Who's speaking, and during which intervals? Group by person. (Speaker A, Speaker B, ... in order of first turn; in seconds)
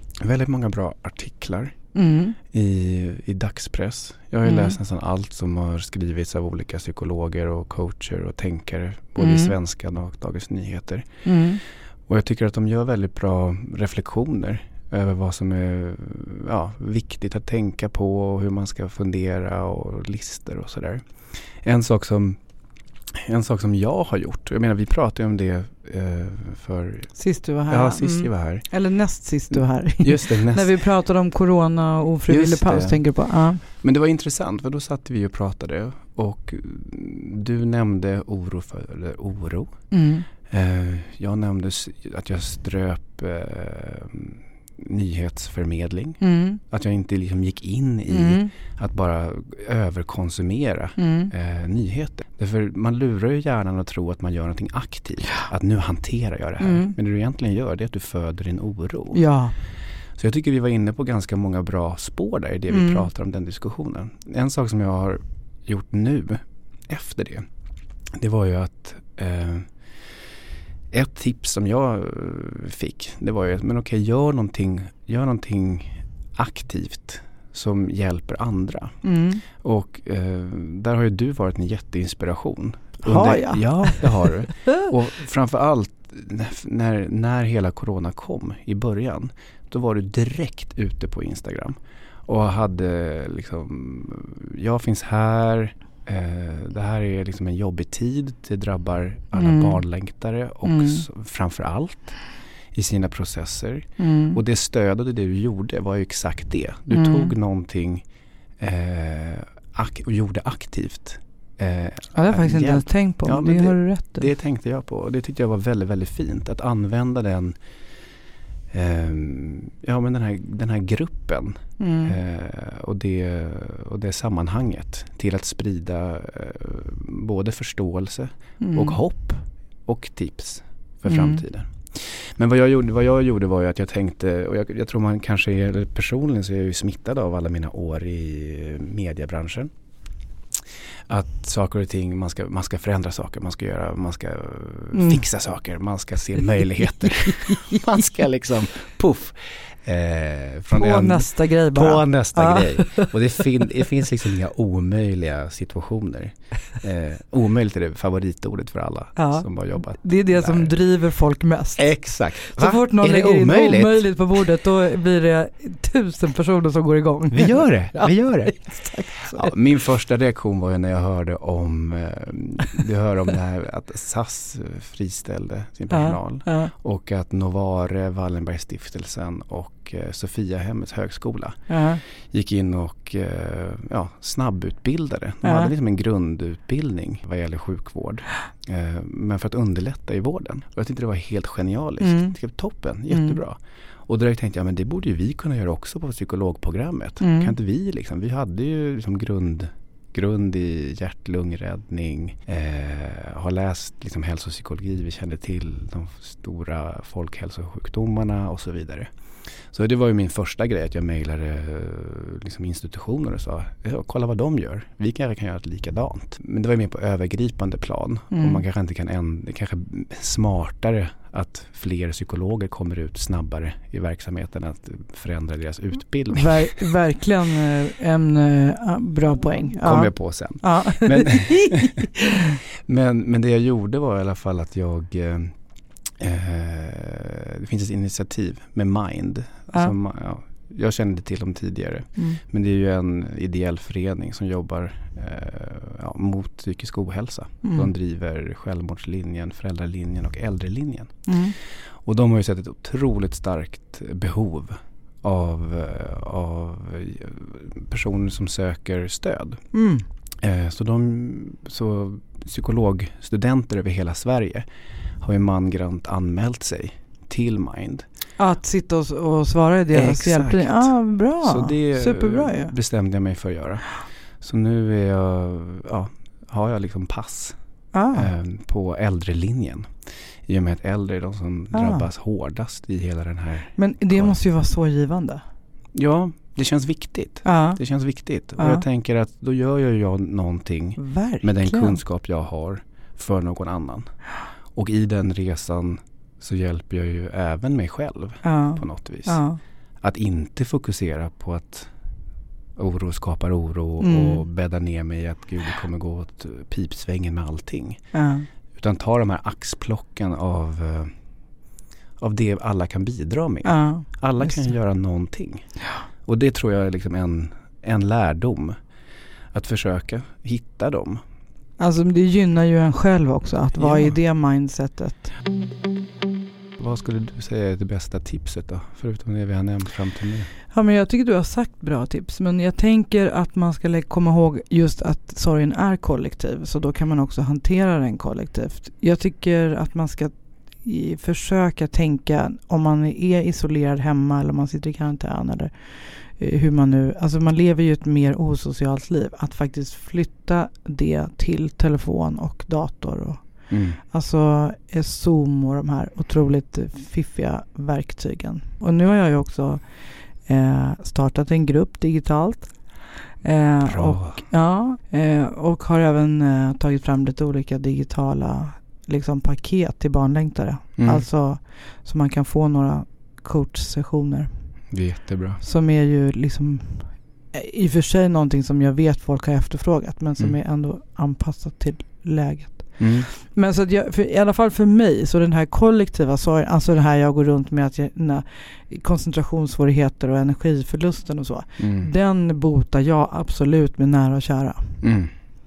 Speaker A: 0.2-1.8, 2.5-11.1, 12.1-21.1, 21.6-22.4, 23.1-27.1, 27.7-28.6, 29.5-30.7, 32.3-33.1, 33.6-39.8, 40.4-59.2, 60.2-67.5, 68.1-70.2, 70.9-108.0, 108.6-117.6, 118.7-139.7, 141.1-160.8, 161.8-164.4, 167.3-209.1, 209.7-226.8, 229.7-232.1, 232.9-235.6, 236.2-259.6, 260.4-264.7, 265.2-268.1, 269.9-277.6, 278.1-284.4, 285.9-299.4, 300.0-301.9, 302.8-308.0, 308.8-311.1, 312.2-318.8, 319.5-321.2, 323.8-324.2, 326.8-330.5, 353.7-354.0, 363.8-364.4, 371.0-371.3, 374.9-375.6, 383.0-383.3, 391.8-392.1, 395.0-395.3
Speaker B: 1.9-2.4, 4.5-4.8, 9.2-9.5, 11.2-11.6, 27.2-33.6, 39.9-40.3, 46.2-46.6, 48.1-48.5, 51.0-51.3, 56.6-57.0, 59.1-59.6, 62.7-63.1, 79.0-79.4, 83.0-84.3, 99.3-99.8, 100.7-101.0, 104.0-104.4, 106.9-107.3, 112.1-114.3, 121.8-122.2, 128.6-129.0, 131.1-131.4, 144.9-145.2, 147.0-147.8, 150.7-153.1, 159.2-169.5, 175.9-176.7, 181.7-182.0, 185.4-185.7, 192.0-192.4, 193.1-193.4, 197.2-197.5, 218.3-218.6, 226.3-232.6, 247.6-247.9, 251.3-251.6, 259.7-260.1, 268.4-272.7, 277.9-278.3, 281.7-282.1, 283.8-285.4, 287.4-287.8, 288.6-288.8, 291.0-292.0, 298.4-299.6, 304.0-304.4, 308.1-308.5, 313.6-314.7, 321.8-325.3, 330.7-362.8, 363.4-374.5, 375.6-395.0